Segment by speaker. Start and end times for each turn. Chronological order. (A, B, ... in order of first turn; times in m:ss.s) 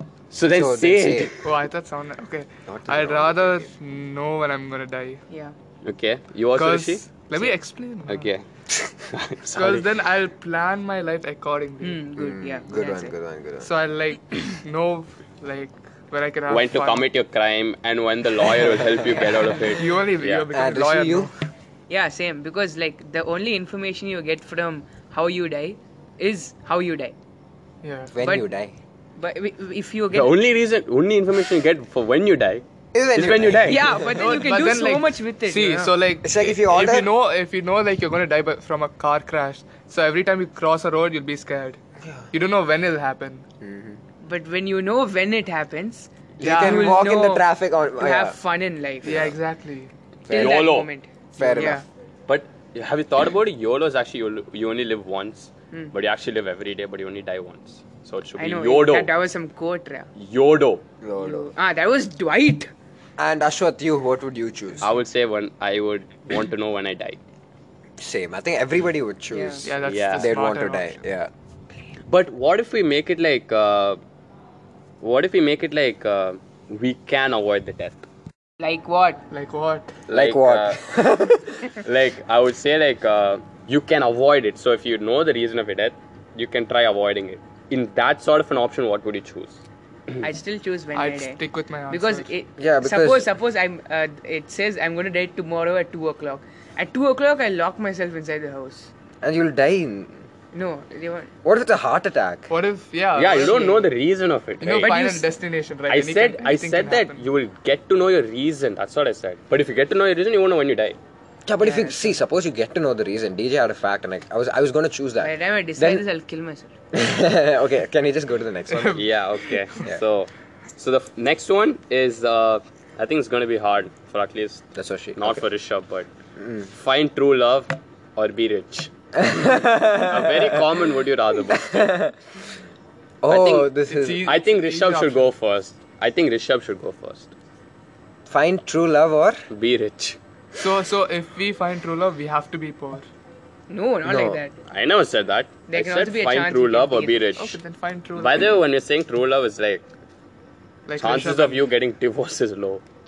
0:00.3-0:01.4 A
0:00.5-0:01.3 B
0:01.4-0:05.2 C
0:02.7-0:03.7 B
0:05.3-0:05.5 D
0:05.8-0:07.5 A
0:06.5-0:08.3 C
0:08.1-0:09.9 A
0:09.5-0:12.0 C
0:11.8-0:13.1 D
0:12.2-0:13.7 B
0:13.6-0:17.0 C
0:16.5-0:20.4 A
0:19.6-0:21.4 C
0:20.5-0:21.3 B
0:21.9-0:27.1 D
0:27.8-0:28.1 C
0:28.1-0:28.7 B
0:29.2-0:30.4 D
0:30.1-0:33.9 A
0:32.9-0:34.2 B
0:33.6-0:35.9 D
0:34.0-0:41.8 C
0:36.2-0:37.1 B
0:42.0-0:42.3 B
0:42.3-0:43.4 C
0:43.6-0:44.0 B
0:44.2-0:47.4 D
0:46.4-0:48.4 B
0:46.4-0:47.1 C
0:48.0-0:49.3 D
0:49.0-0:49.9 C
0:49.0-0:49.3 B
0:50.3-0:50.6 B
0:50.3-0:50.9 A
0:50.3-0:51.8 D
0:51.4-0:51.8 B
0:51.4-0:51.7 C
0:52.3-0:59.1 A
0:58.4-1:00.1 D
1:00.2-1:00.8 A
1:01.0-1:01.5 B
1:01.2-1:02.7 D
1:03.2-1:04.9 B
1:04.8-1:07.2 A
1:08.0-1:11.3 B
1:09.3-1:09.6 D
1:09.6-1:11.0 C
1:09.8-1:10.4 A
1:12.1-1:14.0 A
1:15.0-1:18.0 A
1:18.6-1:19.2 D
1:19.3-1:20.0 C
1:20.1-1:20.9 A
1:20.1-1:21.7 B
1:21.7-1:29.6 A
1:30.2-1:38.9 D
1:30.9-1:32.3 C
1:32.6-1:33.3 B
1:39.2-1:40.2 B
1:40.5-1:41.3 D
1:41.4-1:42.5 B
1:42.5-1:43.9 C
1:43.1-1:45.0 A
1:43.3-1:43.8 D
1:44.6-1:47.2 C
1:44.8-1:45.2 D
1:45.9-1:51.0 A
1:51.4-1:56.0 B
1:51.6-1:52.1 D
1:55.2-1:56.7 D
1:56.9-1:59.0 B
1:58.7-1:59.7 C
1:58.9-2:04.6 A
2:04.7-2:05.4 B
2:05.2-2:06.1 A
2:06.4-2:06.7 B
2:06.7-2:08.9 A
2:09.1-2:10.8 B
2:09.4-2:12.0 A
2:11.5-2:12.2 B
2:13.2-2:14.3 B
2:13.3-2:13.7 A
2:13.9-2:15.3 C
2:14.2-2:17.3 A
2:18.3-2:19.4 B
2:19.5-2:20.2 A
2:20.6-2:23.0 C
2:23.7-2:24.5 D
2:24.0-2:24.4 B
2:24.7-2:27.6 A
2:25.7-2:27.4 D
2:27.4-2:28.6 C
2:28.1-2:29.8 A
2:30.9-2:31.6 C
2:31.0-2:32.8 A